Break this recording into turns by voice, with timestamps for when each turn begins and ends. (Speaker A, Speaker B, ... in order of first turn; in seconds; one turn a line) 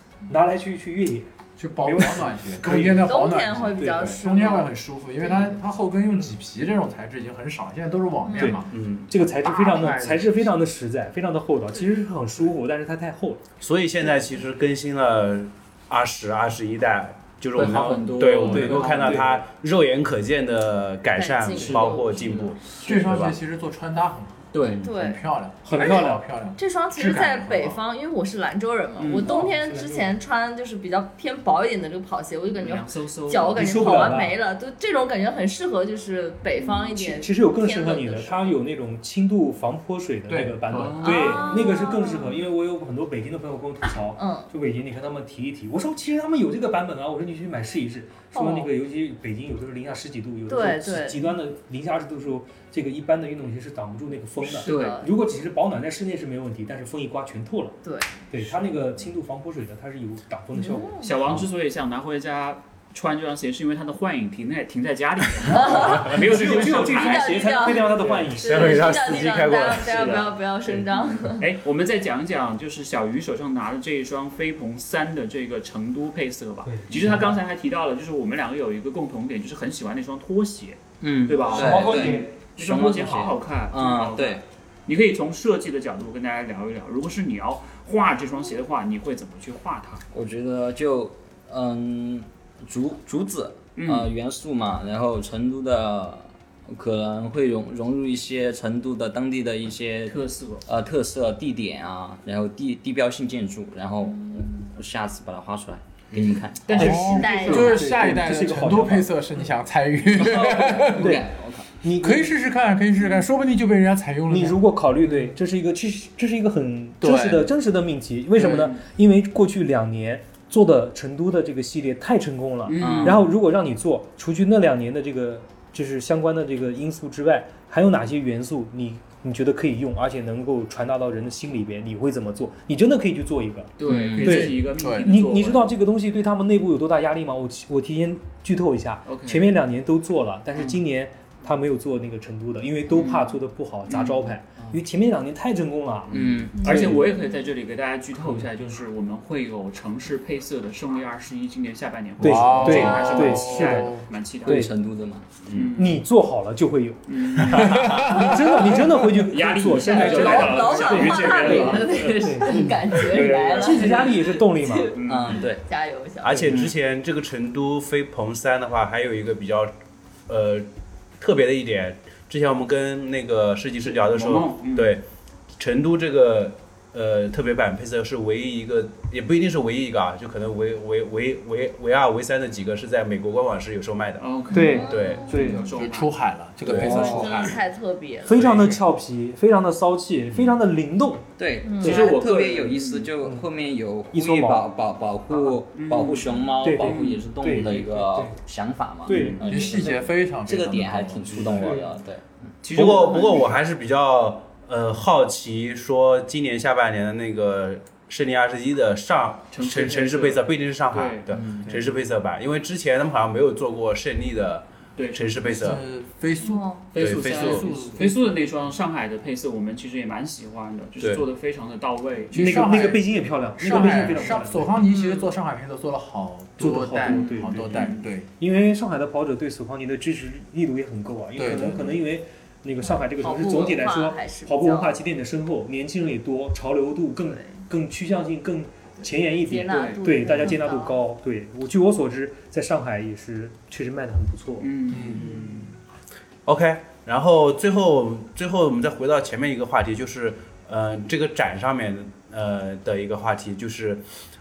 Speaker A: 0.3-3.1
Speaker B: 1.6-8.7
Speaker C: 2.9-4.7
Speaker C: 8.2-8.7
Speaker A: 8.3-13.4
Speaker D: 8.7-9.1
Speaker B: 9.4-10.5
Speaker D: 13.6-23.4
Speaker E: 17.5-19.4
Speaker B: 17.6-19.1
Speaker A: 18.5-19.3
Speaker C: 21.1-22.2
Speaker E: 21.5-22.9
Speaker B: 22.8-27.8
Speaker E: 24.5-24.9
Speaker C: 24.8-25.2
Speaker A: 25.6-26.2
Speaker C: 26.6-38.6
Speaker E: 29.0-29.4
Speaker A: 29.2-30.1
Speaker E: 32.5-34.0
Speaker A: 33.5-34.4
Speaker A: 36.6-61.0
Speaker B: 40.3-41.2
Speaker E: 40.7-41.7
Speaker C: 41.0-42.4
Speaker C: 44.2-44.5
Speaker C: 48.3-48.7
Speaker C: 50.5-51.4
Speaker C: 54.4-55.1
Speaker E: 54.6-55.0
Speaker C: 57.8-58.2
Speaker C: 60.5-61.1
Speaker E: 61.0-68.3
Speaker C: 65.5-71.5
Speaker A: 65.8-69.0
Speaker D: 68.4-70.2
Speaker E: 69.7-90.0
Speaker A: 76.7-77.3
Speaker F: 81.0-84.4
Speaker A: 81.3-82.4
Speaker A: 83.0-83.2
Speaker F: 90.1-107.0
Speaker E: 93.8-94.1
Speaker E: 100.1-100.7
Speaker B: 106.1-111.2
Speaker E: 106.6-107.8
Speaker A: 106.8-109.1
Speaker C: 107.0-107.8
Speaker F: 110.2-111.7
Speaker A: 111.0-111.2
Speaker A: 111.8-112.3
Speaker B: 112.0-114.7
Speaker A: 114.3-147.1
Speaker B: 117.0-117.5
Speaker E: 118.4-118.8
Speaker E: 122.7-123.3
Speaker F: 122.8-123.3
Speaker E: 133.8-135.8
Speaker F: 133.8-134.5
Speaker B: 134.2-135.2
Speaker E: 139.1-139.6
Speaker E: 142.9-144.3
Speaker F: 146.1-146.9
Speaker E: 146.6-154.7
Speaker C: 146.7-147.2
Speaker B: 152.2-154.1
Speaker A: 152.2-154.7
Speaker F: 154.4-155.3
Speaker D: 155.5-155.8
Speaker E: 155.5-156.0
Speaker A: 155.8-164.9
Speaker E: 157.1-158.4
Speaker B: 157.4-158.6
Speaker E: 159.1-164.2
Speaker C: 159.8-166.5
Speaker E: 164.9-165.5
Speaker F: 165.1-165.6
Speaker D: 166.2-169.7
Speaker F: 166.4-166.7
Speaker D: 170.3-170.7
Speaker D: 171.2-175.0
Speaker E: 173.8-175.0
Speaker D: 175.6-184.2
Speaker E: 184.2-186.1
Speaker A: 184.5-185.7
Speaker C: 184.5-185.7
Speaker D: 184.8-185.3
Speaker B: 185.3-187.6
Speaker D: 186.7-187.1
Speaker A: 186.7-187.5
Speaker C: 186.9-188.7
Speaker A: 188.2-191.3
Speaker E: 188.3-188.8
Speaker F: 191.4-202.5
Speaker C: 191.7-192.1
Speaker E: 191.8-193.1
Speaker A: 191.8-192.1
Speaker A: 194.1-194.7
Speaker A: 195.3-195.6
Speaker E: 195.7-197.2
Speaker A: 196.6-198.4
Speaker A: 199.1-200.0
Speaker E: 199.1-199.4
Speaker B: 199.4-201.9
Speaker E: 202.6-203.5
Speaker D: 202.7-215.8
Speaker E: 209.5-211.4
Speaker B: 211.5-211.8
Speaker E: 215.0-215.3
Speaker B: 215.4-218.3
Speaker C: 216.4-216.8
Speaker E: 216.9-222.8
Speaker D: 217.0-217.7
Speaker B: 222.3-228.3
Speaker A: 222.3-224.8
Speaker C: 224.9-225.3
Speaker A: 226.6-244.7
Speaker C: 227.1-227.5
Speaker E: 227.7-228.0
Speaker B: 231.4-231.9
Speaker C: 232.9-235.0
Speaker C: 239.4-241.0
Speaker E: 239.7-240.6
Speaker E: 244.6-245.7
Speaker B: 244.9-245.6
Speaker D: 246.5-254.0